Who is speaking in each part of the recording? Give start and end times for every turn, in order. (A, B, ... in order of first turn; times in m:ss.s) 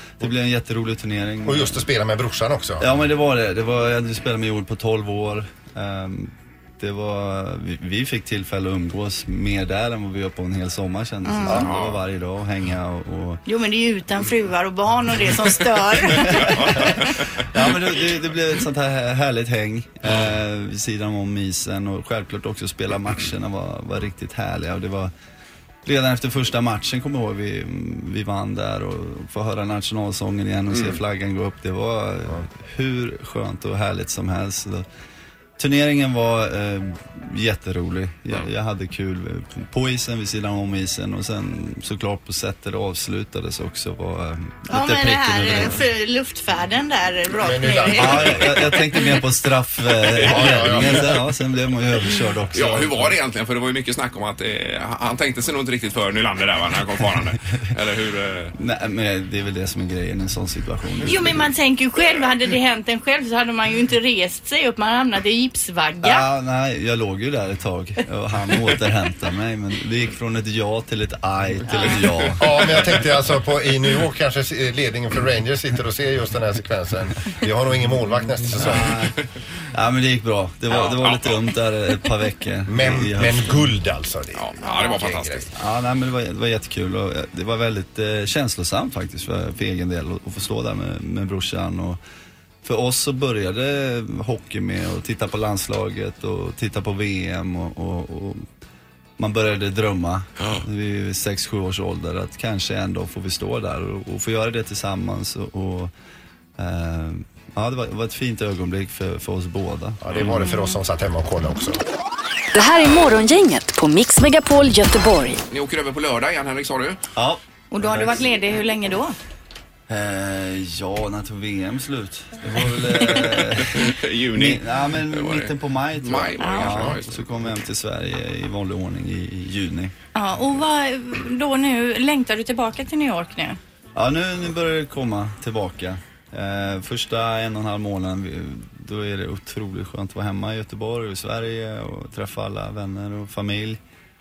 0:00.2-0:01.9 A
0:01.4-0:02.9 B
0:02.8-0:13.4 A
0:11.2-0:11.6 C
0:11.5-0:12.0 D
0:13.5-0:17.0 C
0:16.1-0:25.1 A
0:25.8-0:34.9 A
0:30.7-0:31.0 D
0:35.6-0:45.8 A
0:44.7-0:49.1 C
0:47.4-0:48.7 B
0:47.9-0:53.2 A
0:50.1-0:51.1 D
0:50.2-0:51.2 B
0:52.5-0:58.5 D
0:58.6-1:01.4 A
1:01.0-1:06.3 C
1:06.0-1:12.8 A
1:11.7-1:12.0 C
1:12.4-1:18.9 B
1:18.5-1:19.2 A
1:19.7-1:23.7 A
1:20.7-1:21.6 D
1:22.7-1:25.5 B
1:24.4-1:25.5 D
1:25.6-1:32.0 A
1:32.6-1:38.4 A
1:39.2-1:45.9 A
1:46.6-1:50.0 A
1:50.0-1:51.8 B
1:50.5-1:50.7 C
1:52.5-1:55.4 E
1:55.5-1:57.0 D
1:57.2-1:58.2 A
1:57.7-1:59.2 C
1:59.9-2:09.9 A
2:03.2-2:07.5 D
2:06.4-2:06.9 C
2:10.2-2:13.6 C
2:14.0-2:23.8 A